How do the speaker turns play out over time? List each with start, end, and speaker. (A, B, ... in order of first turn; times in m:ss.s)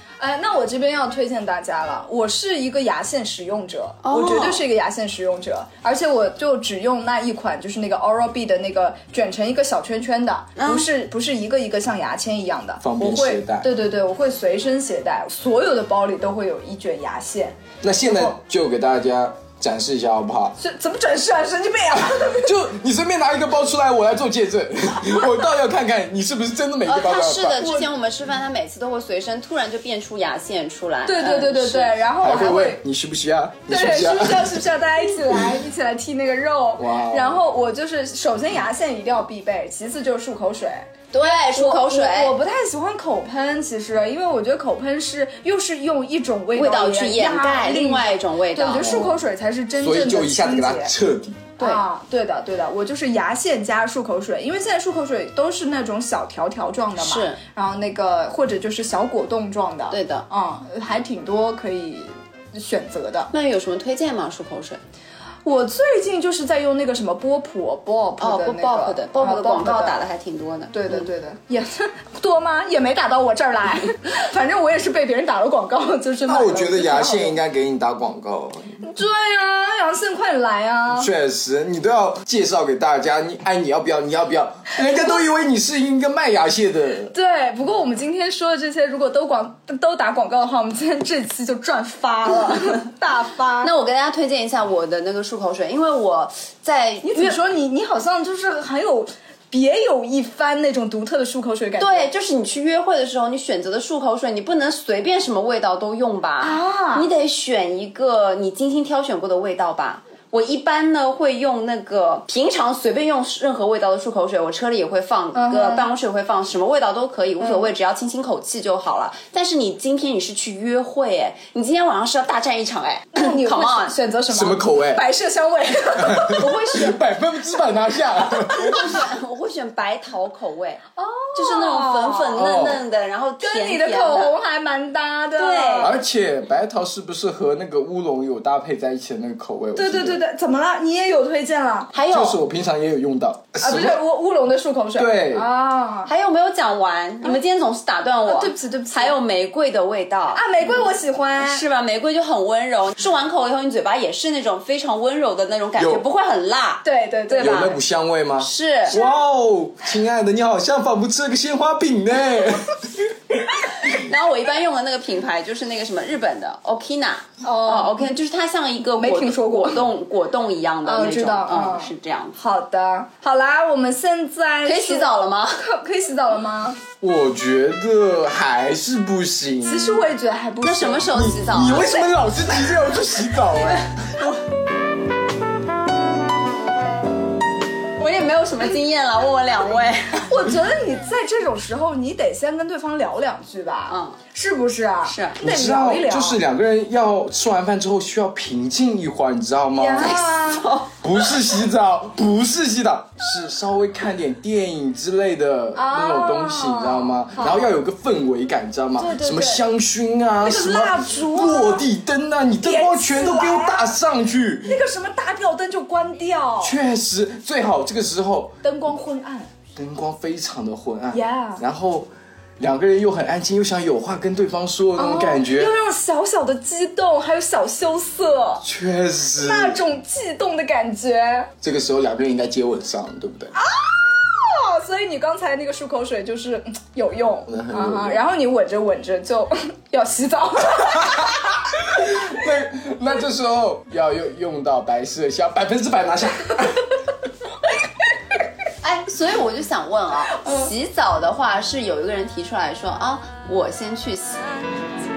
0:00.2-0:18.3 A
0:04.0-0:04.6 B
0:10.6-0:10.9 B
0:12.8-0:13.7 C
0:17.8-0:20.6 C
0:20.6-0:22.5 A
0:22.1-0:27.8 C
0:26.8-0:32.0 B
0:27.6-0:27.9 A
0:31.0-0:32.8 A
0:32.2-0:34.6 C
0:33.7-0:40.9 A
0:36.8-0:37.4 C
0:41.1-0:42.3 B
0:41.5-0:50.9 A
0:46.5-0:49.1 B
0:48.8-0:49.2 C
0:49.8-0:51.5 C
0:51.6-1:03.3 A
0:57.0-0:57.4 B
0:59.9-1:00.2 B
1:03.3-1:04.8 B
1:05.4-1:10.0 A
1:08.2-1:11.1 B
1:10.7-1:17.4 A
1:16.2-1:18.8 C
1:18.8-1:21.1 A
1:20.9-1:27.1 C
1:27.1-1:33.7 A
1:33.6-1:37.4 B
1:37.0-1:42.1 A
1:41.8-2:04.0 B
1:46.4-1:47.1 A
1:55.3-1:55.8 A
1:57.4-1:57.7 A
2:03.1-2:06.9 A
2:04.3-2:05.1 C
2:06.0-2:08.9 C
2:06.4-2:06.9 B
2:08.5-2:10.8 B
2:11.0-2:12.5 A
2:11.3-2:14.3 B
2:12.4-2:12.8 C
2:13.4-2:16.0 A
2:15.3-2:15.9 B
2:15.8-2:20.2 C
2:19.7-2:21.9 A
2:21.9-2:22.4 B
2:22.1-2:24.0 C
2:23.6-2:26.1 A
2:25.0-2:25.5 C
2:26.0-2:30.4 B
2:28.2-2:29.2 A
2:30.3-2:31.6 A
2:31.4-2:37.7 B
2:35.8-2:36.0 C
2:36.8-2:37.7 A
2:37.4-2:43.7 C
2:38.4-2:39.0 B
2:38.9-2:39.2 A
2:43.9-2:52.4 B
2:47.4-2:48.1 A
2:48.9-2:49.8 A
2:50.8-2:56.8 A
2:54.6-2:55.6 B
2:57.0-3:00.0 C
2:59.6-3:02.0 A
3:00.6-3:02.1 B
3:01.1-3:04.0 C
3:08.0-3:10.3 B
3:10.2-3:16.4 A
3:13.9-3:14.2 B
3:15.0-3:15.4 B
3:15.4-3:20.2 C
3:19.8-3:20.7 A
3:20.0-3:21.0 B
3:21.0-3:34.8 C
3:25.7-3:27.7 A
3:29.0-3:29.6 A
3:30.4-3:31.8 A
3:32.6-3:33.9 A
3:34.6-3:36.8 A
3:36.6-3:38.6 C
3:38.6-3:39.5 A
3:39.7-3:45.7 C
3:41.1-3:41.6 A
3:45.0-3:48.6 A
3:48.6-3:49.8 C
3:49.4-3:51.5 A
3:51.6-3:53.5 C
3:53.6-4:01.5 A
3:57.5-3:58.2 C
4:01.0-4:06.9 C
4:08.8-4:14.5 B